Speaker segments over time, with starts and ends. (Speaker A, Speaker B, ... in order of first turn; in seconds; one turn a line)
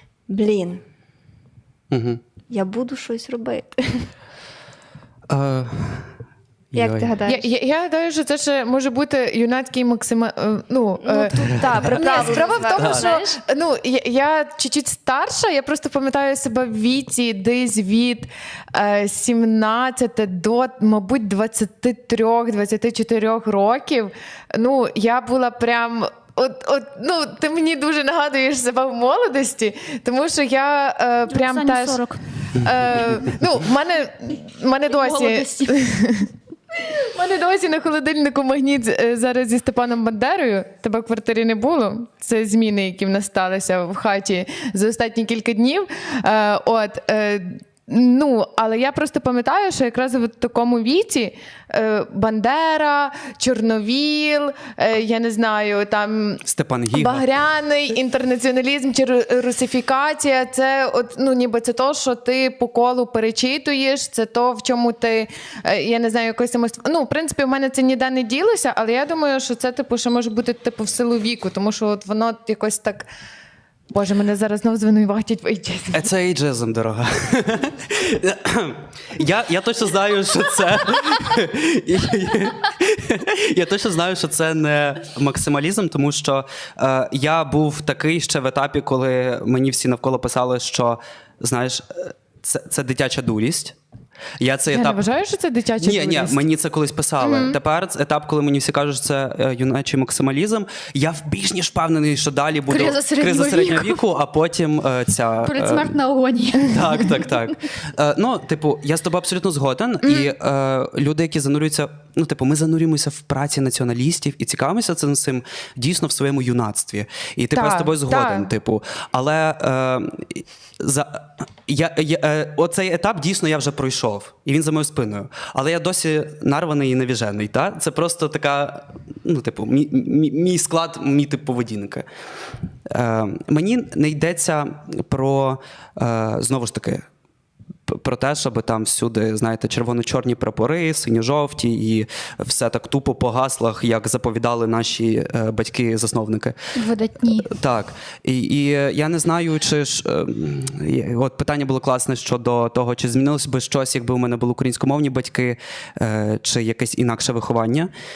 Speaker A: 0.3-0.8
Speaker B: 1.9-2.2
Speaker A: 2.5-4.1
Speaker B: 5.3-6.1
Speaker B: 6.7-7.1
Speaker A: 6.7-7.5
Speaker C: 7.2-73.1
Speaker A: 11.0-13.4
Speaker D: 12.0-12.6
Speaker B: 12.8-13.1
Speaker D: 31.3-32.2
Speaker D: 34.9-35.8
Speaker B: 56.5-57.3
Speaker C: 73.9-76.0
Speaker B: 75.9-93.8
Speaker B: 94.4-95.0
Speaker C: 94.7-96.4
Speaker B: 95.8-106.0
Speaker C: 97.2-97.6
Speaker D: 102.7-104.0
Speaker D: 105.4-107.4
Speaker B: 106.6-132.1
Speaker C: 110.0-110.3
Speaker C: 117.5-118.5
Speaker B: 132.9-137.0
Speaker B: 137.9-146.6
Speaker D: 146.8-147.5
Speaker B: 147.5-157.9